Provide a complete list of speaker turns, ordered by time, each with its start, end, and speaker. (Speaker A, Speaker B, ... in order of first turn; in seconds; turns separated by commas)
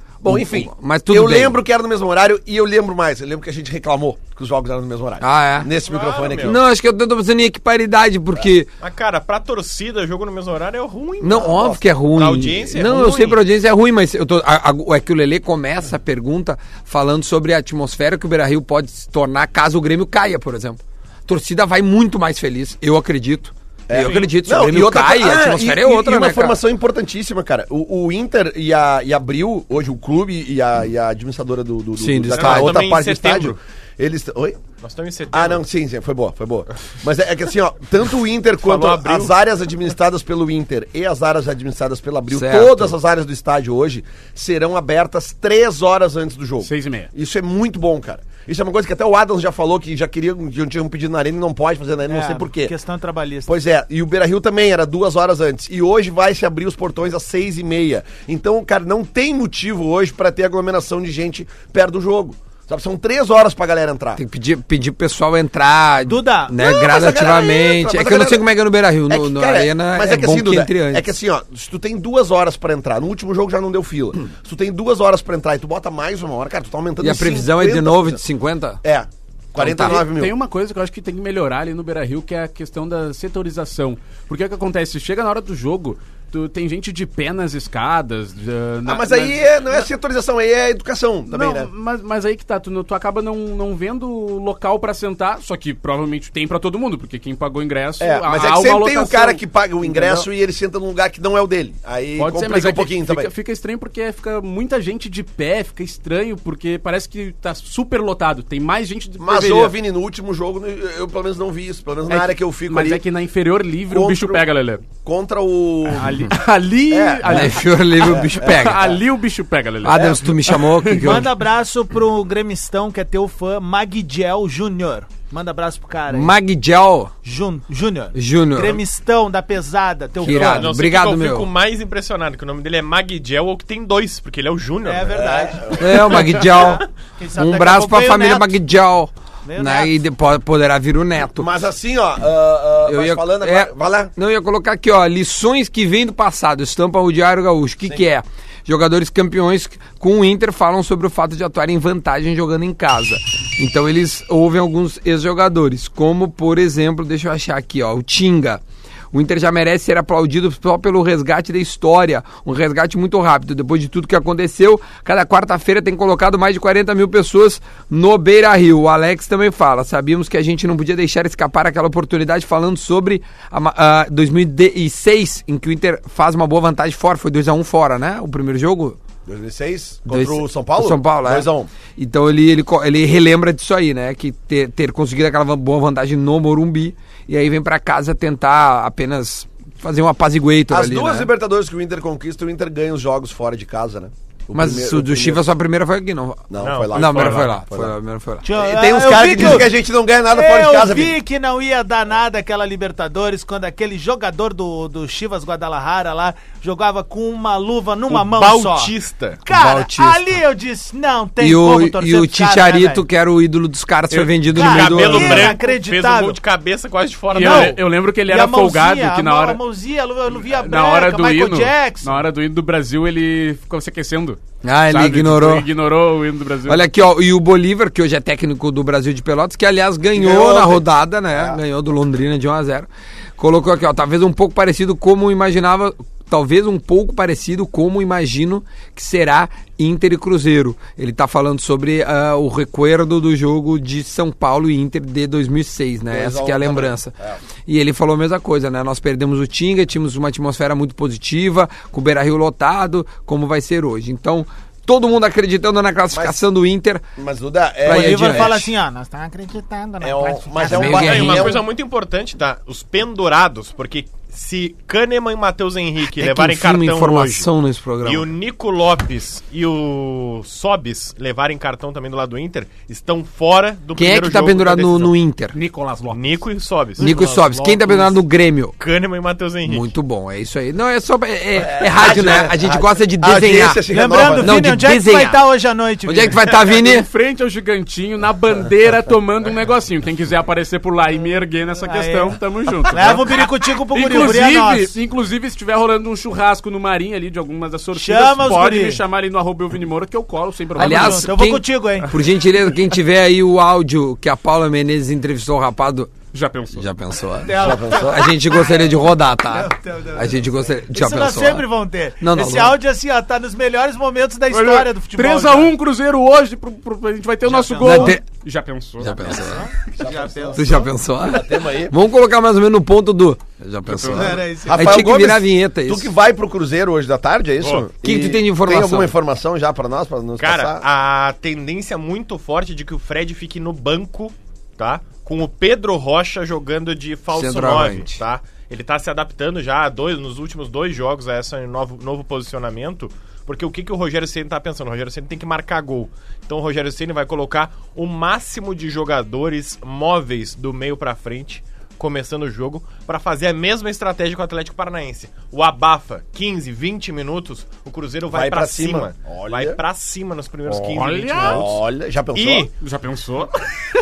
Speaker A: 0.2-6.6, Speaker B: 0.2-1.6, Speaker B: 5.2-5.7, Speaker C: 5.8-6.6, Speaker B: 6.4-8.7, Speaker C: 8.8-11.5, Speaker B: 11.2-26.6, Speaker A: 11.2-11.8, Speaker C: 12.1-13.4, Speaker A: 23.9-34.6, Speaker C: 23.9-24.2, Speaker B: 31.9-32.8, Speaker C: 32.3-33.6, Speaker C: 34.8-35.6, Speaker A: 35.3-52.7, Speaker C: 38.6-39.3, Speaker B: 42.3-43.0, Speaker D: 46.6-47.1, Speaker E: 52.1-53.5, Speaker A: 53.5-64.2, Speaker B: 64.2-71.0, Speaker E: 66.0-66.6, Speaker A: 66.6-68.4, Speaker A: 69.1-78.2, Speaker B: 77.0-78.8, Speaker A: 78.8-80.4, Speaker B: 79.6-80.0, Speaker D: 79.7-89.9, Speaker A: 88.8-91.7, Speaker D: 91.3-100.3, Speaker A: 98.0-103.3, Speaker D: 102.2-109.8, Speaker A: 109.2-113.0, Speaker D: 112.1-114.8, Speaker A: 113.9-114.5, Speaker A: 115.0-116.3, Speaker D: 115.9-117.6, Speaker A: 116.9-119.0, Speaker B: 117.2-118.8, Speaker D: 118.2-121.2, Speaker B: 119.8-121.3, Speaker A: 119.9-120.5, Speaker E: 121.0-126.3, Speaker B: 126.1-127.1, Speaker E: 127.2-130.7, Speaker B: 128.1-128.8, Speaker B: 130.2-131.5, Speaker C: 130.2-135.2, Speaker E: 134.8-138.5, Speaker A: 135.1-136.4, Speaker B: 135.8-136.8, Speaker B: 137.3-141.5, Speaker E: 139.4-139.9, Speaker A: 141.4-144.1, Speaker B: 142.8-179.0, Speaker A: 179.2-181.7, Speaker B: 180.1-191.3, Speaker A: 190.7-195.4, Speaker B: 194.5-198.4, Speaker A: 196.5-197.9, Speaker C: 196.6-197.5, Speaker E: 198.4-199.7, Speaker A: 198.5-201.2, Speaker E: 200.3-208.9, Speaker C: 208.1-209.4, Speaker E: 209.4-213.0, Speaker B: 209.5-210.2, Speaker B: 211.4-215.6, Speaker C: 214.2-217.8, Speaker E: 214.5-216.4, Speaker D: 217.3-219.6, Speaker E: 217.4-222.2, Speaker D: 220.5-226.8, Speaker B: 224.6-225.7, Speaker B: 226.7-247.1, Speaker A: 230.1-231.6, Speaker A: 246.1-247.4, Speaker B: 247.7-257.1, Speaker A: 257.2-258.6, Speaker B: 257.8-258.7, Speaker E: 257.9-261.2, Speaker A: 260.0-261.6, Speaker B: 260.6-261.6, Speaker C: 260.9-267.5, Speaker B: 266.0-268.3, Speaker C: 268.0-275.1, Speaker B: 273.9-275.5, Speaker D: 275.5-276.4, Speaker C: 276.1-277.3, Speaker B: 277.0-278.8, Speaker D: 277.0-277.9, Speaker E: 277.1-277.4, Speaker C: 278.8-279.9, Speaker B: 279.6-285.4, Speaker A: 281.6-284.6, Speaker E: 283.9-286.4, Speaker B: 286.1-287.1, Speaker D: 286.8-301.3, Speaker E: 291.8-292.3, Speaker E: 292.9-294.9, Speaker E: 297.9-299.0, Speaker E: 300.8-302.1, Speaker B: 300.8-306.1, Speaker D: 306.3-306.9, Speaker B: 306.7-311.7, Speaker E: 307.4-308.9, Speaker A: 307.5-308.3, Speaker E: 309.5-315.7, Speaker B: 312.2-312.8, Speaker D: 314.5-319.2, Speaker E: 317.4-318.2, Speaker B: 317.8-318.2, Speaker B: 319.0-319.7, Speaker E: 319.3-320.9, Speaker A: 320.0-321.9, Speaker B: 320.5-326.1, Speaker D: 323.9-324.3, Speaker E: 324.1-325.0, Speaker A: 324.6-330.8, Speaker C: 327.6-327.9, Speaker B: 328.0-329.1, Speaker C: 330.4-361.8, Speaker B: 337.3-338.2, Speaker A: 358.3-359.8, Speaker D: 360.7-361.8, Speaker A: 361.4-362.7, Speaker C: 362.3-362.7, Speaker D: 362.8-363.5